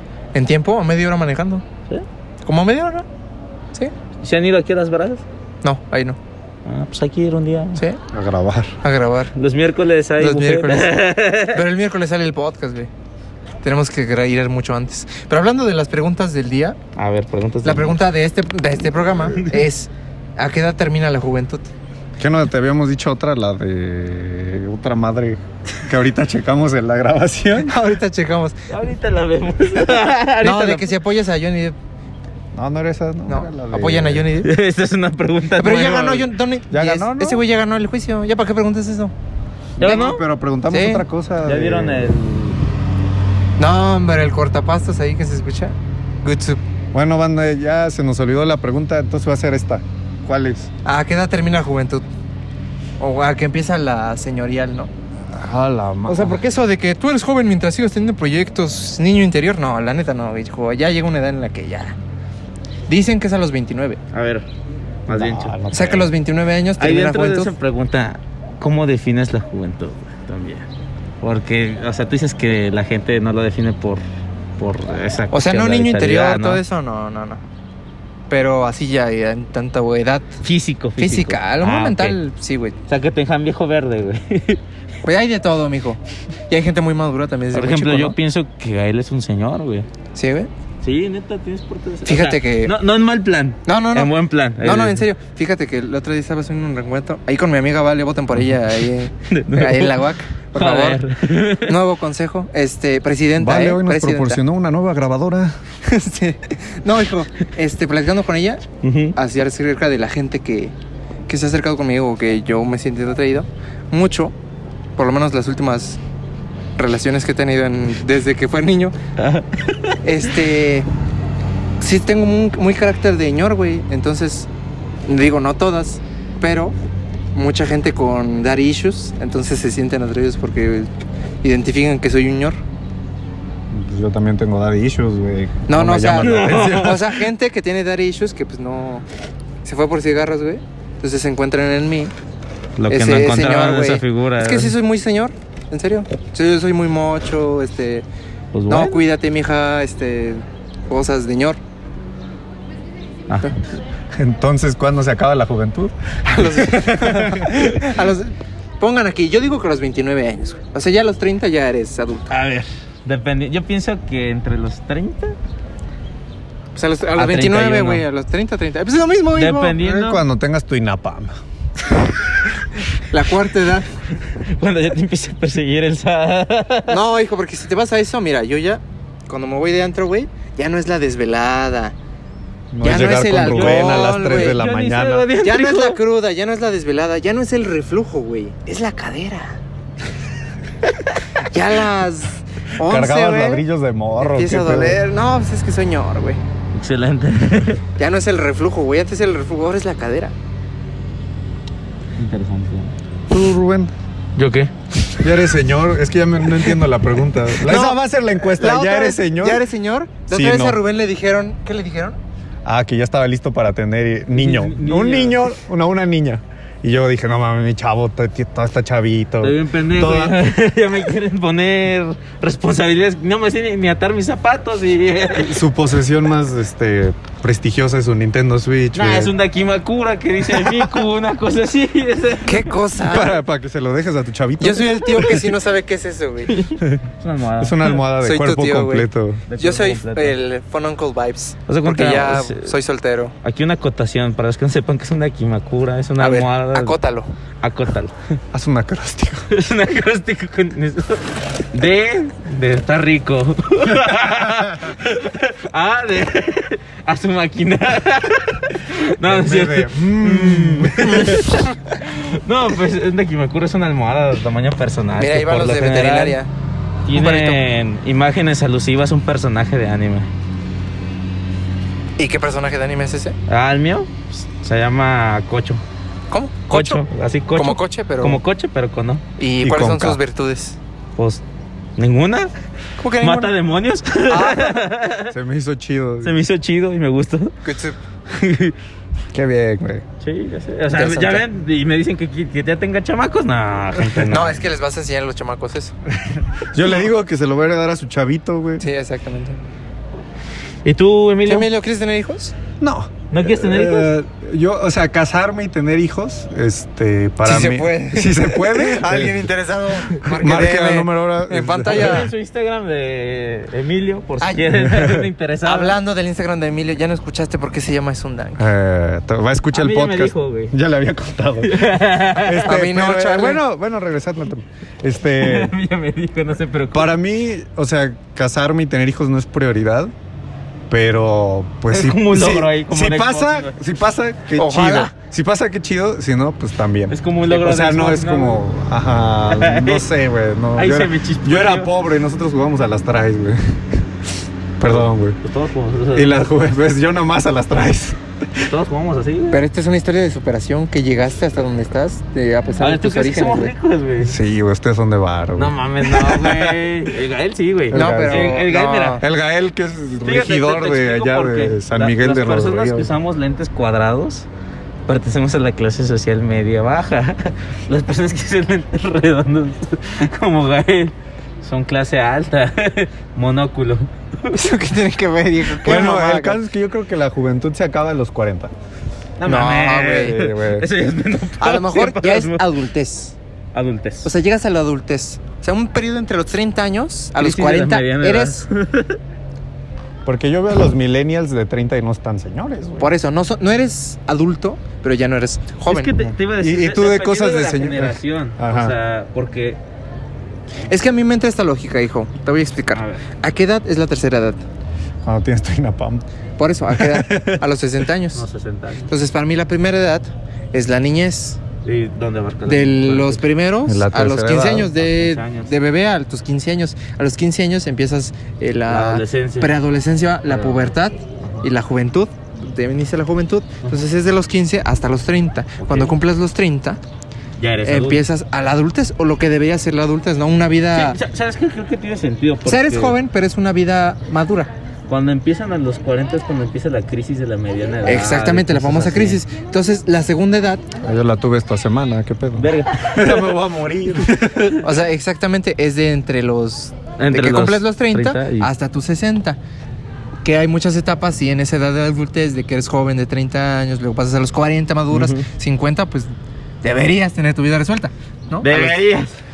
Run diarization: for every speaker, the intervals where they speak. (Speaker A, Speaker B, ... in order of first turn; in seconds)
Speaker A: 0.3-1.6, 2.4-3.0, 5.6-6.2, 8.8-9.3, 10.2-12.9, 13.6-16.8, 17.6-21.7, 27.6-28.6, 30.4-31.7, 33.3-34.5, 35.6-39.1, 40.7-41.0, 43.6-46.6, 50.8-52.0, 53.0-54.9, 56.1-62.0, 62.9-64.0, 65.7-67.5, 75.3-77.4, 78.3-80.3, 81.0-82.8, 85.0-88.2, 90.1-90.5, 92.0-92.7, 93.7-101.0, 101.6-104.4, 105.8-108.6, 109.2-110.7, 111.3-114.3, 115.0-116.0, 116.8-118.9, 120.0-120.9, 121.8-124.5, 125.1-126.7, 127.3-130.9, 131.4-132.6, 135.7-139.0, 139.6-142.1, 142.9-148.0, 148.7-151.6, 156.2-162.3, 166.7-169.8, 173.1-173.9, 176.9-181.9, 182.8-184.6, 185.4-189.5, 191.5-193.6, 194.2-196.4, 198.0-200.3, 207.6-212.2, 232.4-233.4, 234.6-236.6, 238.2-243.3, 246.2-247.3, 265.2-266.5, 267.1-267.6, 272.2-273.4, 276.3-278.4, 279.4-280.8, 283.0-283.5, 284.3-284.8, 287.6-288.0, 290.9-291.4, 294.3-295.9, 298.8-299.6, 301.4-302.5, 307.4-312.3, 314.4-314.9, 315.6-318.6, 322.6-323.6, 334.6-335.1, 349.5-353.7, 357.9-359.2, 374.5-376.6, 379.4-380.5, 381.6-383.4, 384.2-388.6, 393.0-396.1, 400.9-404.6, 406.6-408.4, 409.1-411.6, 412.6-427.0, 427.8-431.2, 432.6-434.7, 438.0-440.9, 444.8-449.6, 450.4-456.3, 456.8-459.0
Speaker B: 4.2-5.2, 6.6-7.8, 9.3-11.6, 16.9-18.0, 19.3-19.6, 28.7-30.9, 34.4-36.3, 39.8-40.2, 41.4-42.6, 64.1-64.5, 65.1-65.6, 66.8-70.7, 71.2-74.0, 74.6-76.6, 80.4-82.2, 82.9-84.6, 87.5-89.9, 90.8-95.0, 99.3-101.7, 108.8-109.2, 119.2-120.0, 136.2-137.0, 142.8-144.7, 148.5-149.0, 153.3-153.6, 162.3-165.3, 167.2-168.0, 169.3-170.2, 174.3-177.0, 183.5-186.0, 196.7-197.8, 202.2-202.9, 204.3-204.7, 214.3-215.5, 219.4-225.6, 228.9-232.7, 236.5-238.0, 239.5-240.4, 241.7-242.8, 243.4-246.9, 247.6-248.1, 249.5-266.4, 267.1-270.3, 273.5-275.8, 276.7-279.2, 281.2-281.4, 282.0-282.5, 283.2-285.3, 286.2-287.5, 288.3-288.8, 290.2-294.6, 300.8-301.7, 303.3-304.1, 311.9-316.0, 319.7-320.8, 321.6-322.7, 325.3-327.1, 331.9-333.8, 337.1-338.6, 339.5-340.1, 340.8-341.9, 344.9-346.4, 348.6-349.6, 352.8-354.4, 355.6-359.2, 360.2-364.5, 365.1-374.5, 379.4-382.6, 383.7-384.3, 387.4-389.2, 395.9-399.8, 402.9-403.2, 408.3-409.1, 411.8-413.4, 414.9-415.7, 418.9-419.7, 420.5-420.8, 425.8-426.1, 427.6-428.2, 430.9-433.1, 435.1-439.4, 442.6-443.6, 447.2-448.7, 455.1-455.4, 458.6-459.4
Speaker C: 8.1-8.8, 22.2-27.7, 32.5-34.3, 36.7-37.4, 39.8-42.2, 46.9-50.7, 55.3-56.4, 65.1-66.1, 103.4-105.6, 133.7-137.1, 154.1-157.8, 169.8-171.4, 182.7-185.3, 192.8-195.0, 203.3-203.9, 205.2-209.6, 210.3-210.8, 212.6-220.4, 225.3-229.3, 230.6-230.9, 233.0-235.3, 236.8-237.1, 237.6-239.4, 248.5-249.5, 254.2-254.8, 259.2-261.4, 279.6-280.2, 285.3-286.4, 289.3-290.0, 296.1-298.8, 302.8-309.4, 310.3-312.3, 314.9-315.2, 318.6-325.8, 326.9-330.1, 330.9-344.0, 344.8-345.4, 346.1-348.6, 354.2-356.7, 357.9-358.6, 359.2-363.1, 375.8-378.7, 380.1-380.9, 390.2-393.1, 396.2-398.9, 405.2-406.2, 406.9-407.6, 413.9-414.9, 441.0-444.8